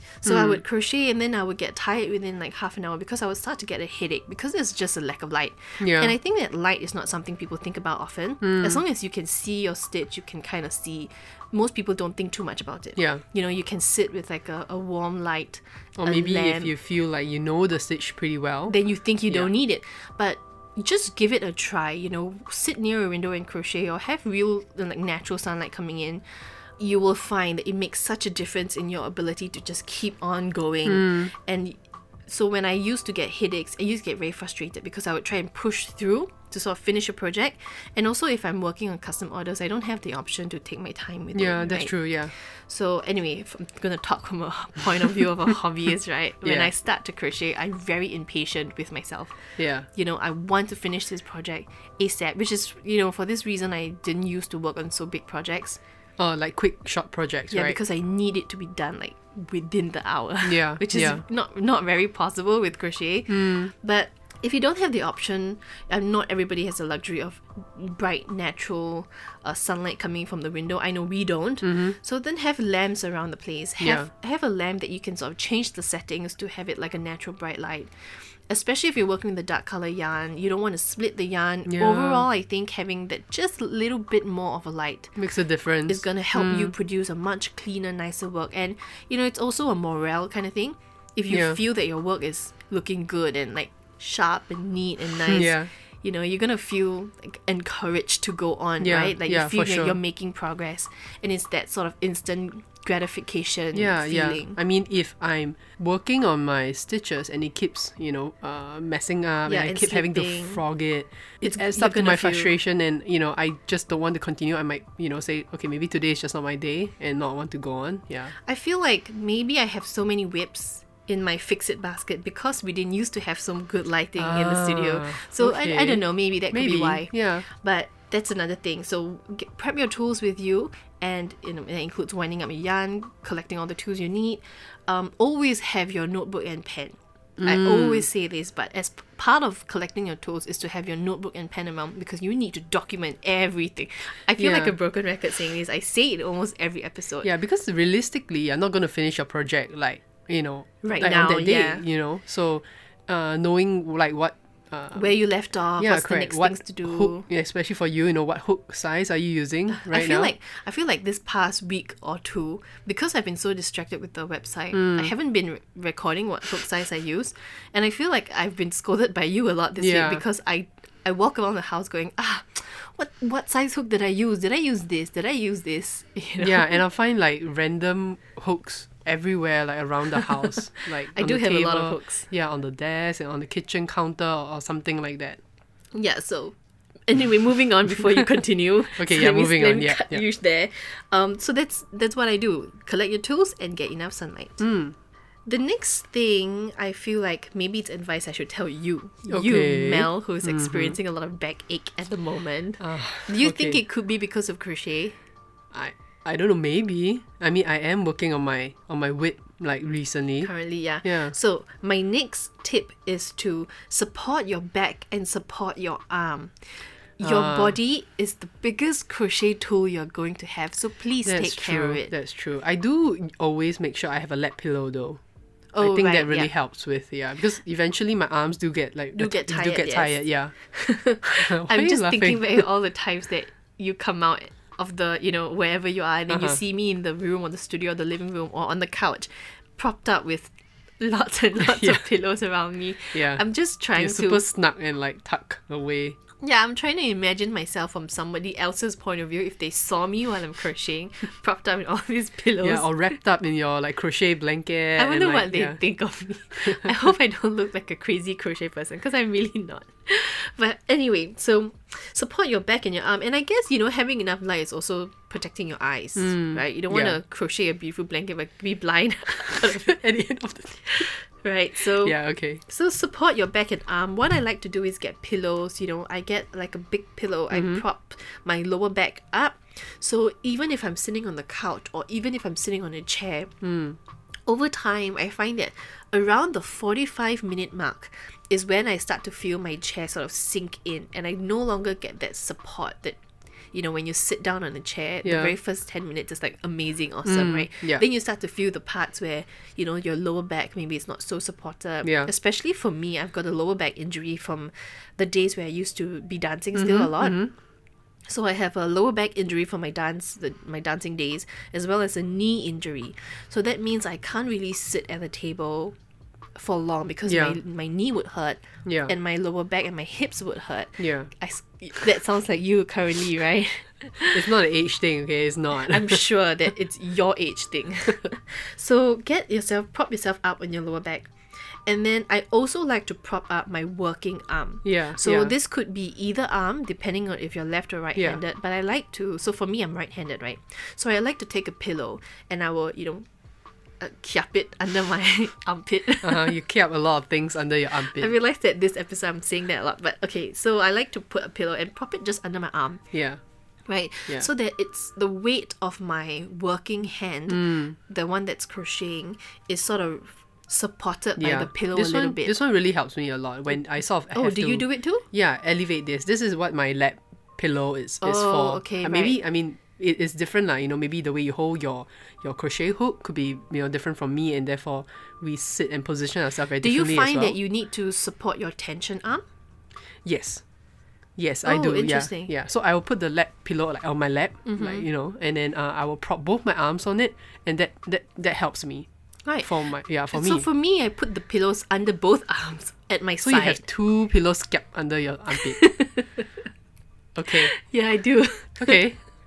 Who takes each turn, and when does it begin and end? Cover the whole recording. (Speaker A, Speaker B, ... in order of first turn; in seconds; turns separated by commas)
Speaker A: 0.2-16.7, Speaker B: 0.2-0.6, Speaker B: 5.8-6.1, Speaker B: 8.4-8.8, Speaker B: 13.0-13.2, Speaker B: 16.0-19.5, Speaker A: 18.7-26.2, Speaker A: 26.8-31.8, Speaker B: 30.9-31.3, Speaker A: 32.3-49.4, Speaker B: 41.3-42.3, Speaker B: 46.4-46.7, Speaker B: 49.6-49.9, Speaker A: 49.9-55.8, Speaker B: 56.2-57.8, Speaker A: 57.5-77.9, Speaker B: 60.4-61.2, Speaker B: 63.3-63.7, Speaker B: 71.6-72.0, Speaker B: 73.8-74.1, Speaker A: 78.5-85.2, Speaker B: 81.7-82.2, Speaker B: 85.2-86.7, Speaker A: 85.9-104.6, Speaker B: 91.3-91.6, Speaker B: 95.2-95.7, Speaker B: 98.8-100.0, Speaker B: 103.7-118.3, Speaker A: 109.5-110.6, Speaker A: 111.4-112.5, Speaker A: 118.5-147.3, Speaker B: 124.2-127.5, Speaker B: 137.4-138.1, Speaker B: 144.4-144.7, Speaker B: 147.2-155.2, Speaker A: 150.8-151.8, Speaker A: 154.9-157.3, Speaker B: 155.8-160.3, Speaker A: 159.7-176.8, Speaker B: 164.7-165.1, Speaker B: 169.8-170.2, Speaker B: 176.4-185.4, Speaker A: 180.2-182.3, Speaker A: 185.9-186.6, Speaker A: 187.1-194.6, Speaker B: 189.0-190.2, Speaker B: 194.6-194.9, Speaker A: 195.5-205.2, Speaker B: 199.3-201.0, Speaker B: 202.8-203.8, Speaker B: 205.7-210.5, Speaker A: 210.4-216.5, Speaker B: 211.0-211.3, Speaker A: 217.2-222.1, Speaker B: 217.2-217.8, Speaker B: 221.2-225.2, Speaker A: 225.7-226.5, Speaker B: 225.8-230.5, Speaker A: 229.2-244.4, Speaker B: 231.2-232.7, Speaker B: 236.3-236.6, Speaker B: 241.6-242.0, Speaker B: 243.1-243.4, Speaker B: 244.0-246.2, Speaker A: 246.4-253.0, Speaker B: 252.6-255.8, Speaker A: 255.0-270.0, Speaker B: 256.6-256.9, Speaker B: 266.2-267.2, Speaker B: 269.5-271.1, Speaker A: 270.8-283.5, Speaker B: 272.0-272.6, Speaker B: 277.5-277.8, Speaker B: 283.6-284.0, Speaker A: 284.5-293.2, Speaker A: 293.7-307.4, Speaker B: 295.2-295.5, Speaker B: 297.2-298.0, Speaker B: 302.0-302.3, Speaker B: 306.7-307.5, Speaker A: 308.3-316.0, Speaker A: 316.6-324.5, Speaker B: 317.3-317.6, Speaker B: 318.9-319.1, Speaker B: 321.0-321.3, Speaker B: 324.3-326.2, Speaker A: 325.8-331.3, Speaker A: 331.9-343.3, Speaker B: 334.9-335.5, Speaker B: 338.1-338.4, Speaker A: 344.0-346.6, Speaker B: 346.2-348.3, Speaker A: 348.0-353.0, Speaker B: 353.1-353.4, Speaker A: 353.9-362.5, Speaker B: 357.5-358.0, Speaker B: 361.4-377.6, Speaker A: 364.3-365.2, Speaker A: 368.2-369.4, Speaker A: 376.8-379.4, Speaker B: 380.2-380.6, Speaker B: 381.4-389.1, Speaker A: 381.6-382.5, Speaker A: 384.6-385.1, Speaker A: 389.5-393.8, Speaker B: 389.6-390.7, Speaker B: 393.4-395.9, Speaker A: 395.6-396.5, Speaker B: 397.4-397.8, Speaker A: 397.5-399.1, Speaker B: 398.8-399.2